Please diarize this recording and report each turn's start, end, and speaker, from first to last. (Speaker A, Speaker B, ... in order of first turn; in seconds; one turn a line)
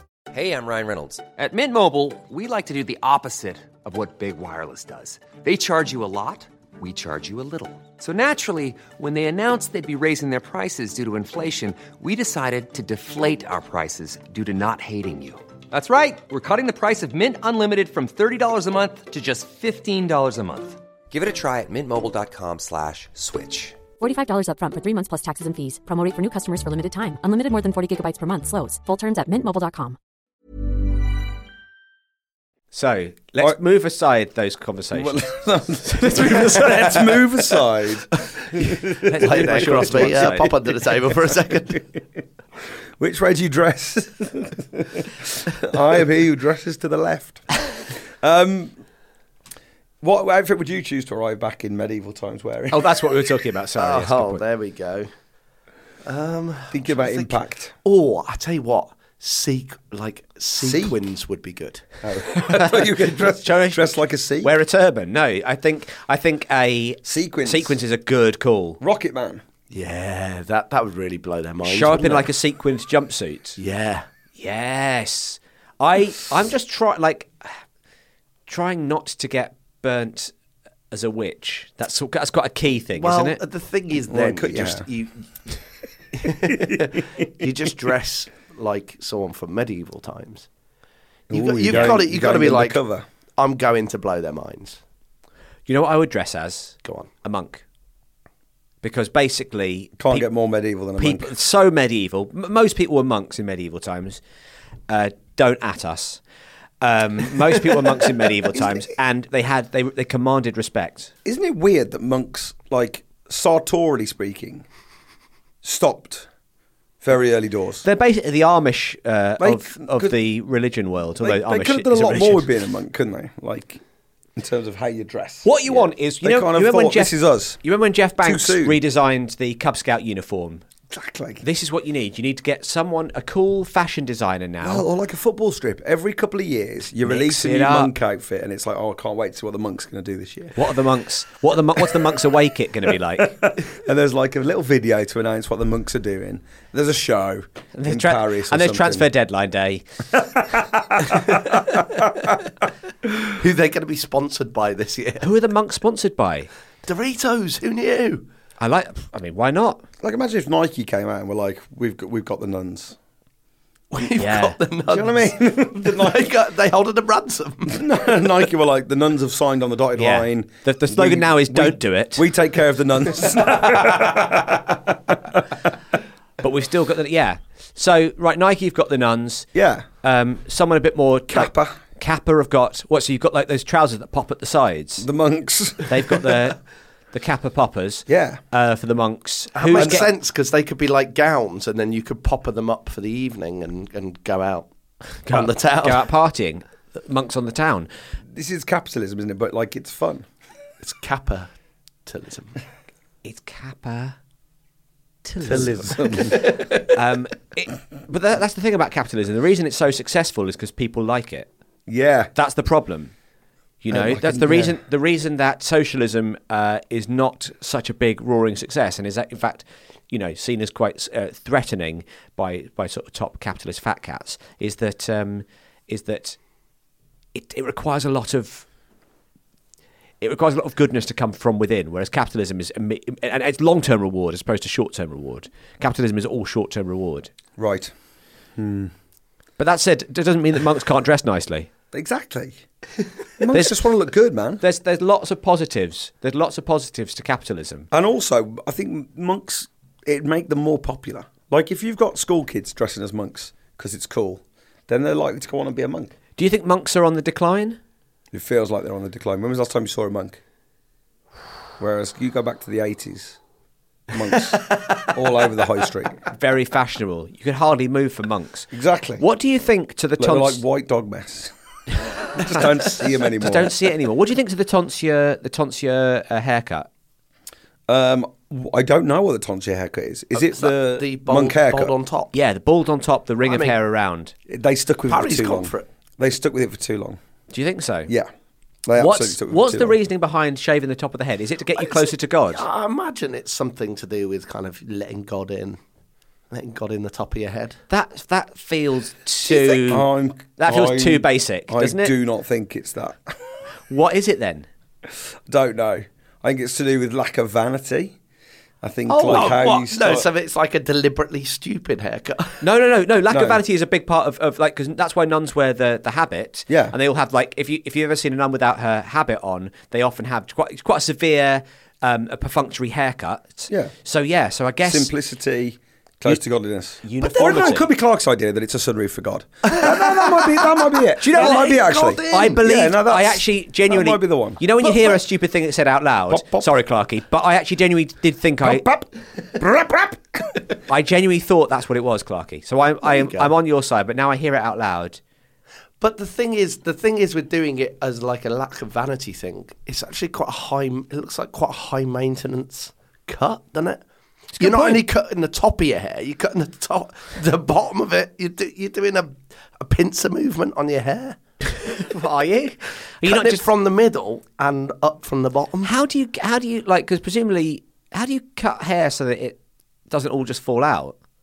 Speaker A: 0.3-23.8
Speaker B: 24.0-29.9
Speaker C: 32.7-35.2
Speaker D: 34.9-40.6
Speaker C: 35.8-37.1
Speaker C: 39.0-40.5
Speaker E: 39.1-41.8
Speaker D: 43.0-48.8
Speaker D: 50.0-52.8
Speaker C: 52.7-54.4
Speaker E: 53.8-55.1
Speaker E: 56.0-61.8
Speaker D: 56.7-57.7
Speaker D: 60.6-61.0
Speaker D: 62.0-64.5
Speaker C: 62.5-68.8
Speaker D: 67.0-67.8
Speaker D: 68.8-69.4
Speaker E: 69.7-72.3
Speaker C: 71.6-73.6
Speaker E: 73.6-74.0
Speaker C: 74.4-77.6
Speaker C: 78.5-80.3
Speaker C: 80.9-83.4
Speaker E: 83.0-85.5
Speaker D: 84.1-84.8
Speaker E: 86.2-90.5
Speaker D: 86.5-86.8
Speaker E: 91.3-92.8
Speaker D: 91.3-93.0
Speaker C: 91.7-92.0
Speaker E: 93.4-94.8
Speaker C: 95.7-97.6
Speaker E: 96.8-97.1
Speaker C: 98.8-100.3
Speaker D: 100.0-101.3
Speaker C: 101.0-104.2
Speaker C: 104.9-106.2
Speaker C: 106.8-111.1
Speaker D: 111.2-114.6
Speaker D: 115.6-116.3
Speaker D: 117.0-117.8
Speaker C: 117.8-122.5
Speaker D: 119.4-120.2
Speaker D: 121.2-123.8
Speaker D: 124.3-127.6
Speaker C: 125.4-130.6
Speaker D: 128.2-128.8
Speaker D: 130.9-131.4
Speaker C: 131.4-134.8
Speaker D: 134.6-140.6
Speaker C: 137.0-137.9
Speaker C: 140.6-143.4
Speaker D: 143.2-149.1
Speaker C: 147.7-149.8
Speaker D: 150.3-151.8
Speaker E: 153.3-155.3
Speaker C: 155.2-156.5
Speaker E: 156.8-158.2
Speaker C: 158.6-159.8
Speaker D: 160.0-162.9
Speaker E: 163.9-167.9
Speaker C: 164.2-164.6
Speaker D: 164.9-166.3
Speaker D: 167.7-175.4
Speaker C: 169.9-172.2
Speaker C: 176.4-179.5
Speaker D: 179.5-179.8
Speaker C: 180.0-185.1
Speaker D: 181.3-181.8
Speaker D: 185.0-186.4
Speaker C: 185.9-186.6
Speaker C: 187.1-190.1
Speaker D: 188.1-188.4
Speaker E: 189.6-194.7
Speaker D: 189.7-190.1
Speaker C: 195.2-197.9
Speaker E: 195.3-196.1
Speaker D: 198.3-200.2
Speaker E: 200.8-201.5
Speaker E: 202.1-202.6
Speaker C: 203.2-204.2
Speaker C: 205.2-205.9
Speaker D: 205.4-206.5
Speaker C: 206.8-211.5
Speaker D: 211.9-212.3
Speaker C: 212.3-213.1
Speaker C: 213.8-226.4
Speaker D: 213.9-214.8
Speaker C: 227.3-228.7
Speaker C: 230.2-237.3
Speaker D: 237.6-237.9
Speaker D: 238.6-238.9
Speaker C: 239.6-241.7
Speaker D: 241.9-242.6
Speaker D: 243.4-244.6
Speaker C: 243.5-243.8
Speaker C: 244.6-247.9
Speaker D: 247.9-256.1
Speaker C: 256.4-257.8
Speaker D: 258.3-260.4
Speaker D: 261.8-263.4
Speaker D: 264.1-266.2
Speaker C: 266.3-270.6
Speaker D: 268.7-269.2
Speaker D: 270.2-271.5
Speaker D: 272.3-273.8
Speaker C: 273.4-276.9
Speaker D: 277.9-281.9
Speaker E: 280.4-282.3
Speaker C: 282.3-284.3
Speaker E: 283.4-283.8
Speaker D: 284.5-287.2
Speaker E: 285.1-285.9
Speaker C: 287.5-288.1
Speaker D: 288.8-289.9
Speaker C: 289.0-292.6
Speaker E: 291.8-295.8
Speaker E: 296.5-297.8
Speaker C: 297.9-302.1
Speaker D: 299.5-303.4
Speaker C: 303.9-304.7
Speaker D: 305.5-308.1
Speaker D: 308.8-310.3
Speaker E: 309.1-312.6
Speaker C: 312.6-325.1
Speaker D: 313.3-313.6
Speaker D: 316.7-316.9
Speaker D: 324.8-335.2
Speaker C: 327.0-327.9
Speaker E: 329.8-330.6
Speaker C: 331.2-338.8
Speaker E: 331.2-332.6
Speaker D: 336.3-336.7
Speaker D: 338.6-340.6
Speaker C: 340.9-345.2
Speaker E: 343.0-343.5
Speaker E: 346.0-354.0
Speaker C: 354.6-355.0
Speaker E: 354.6-361.4
Speaker C: 361.9-363.6
Speaker E: 363.2-365.9
Speaker C: 365.8-369.6
Speaker C: 370.1-371.1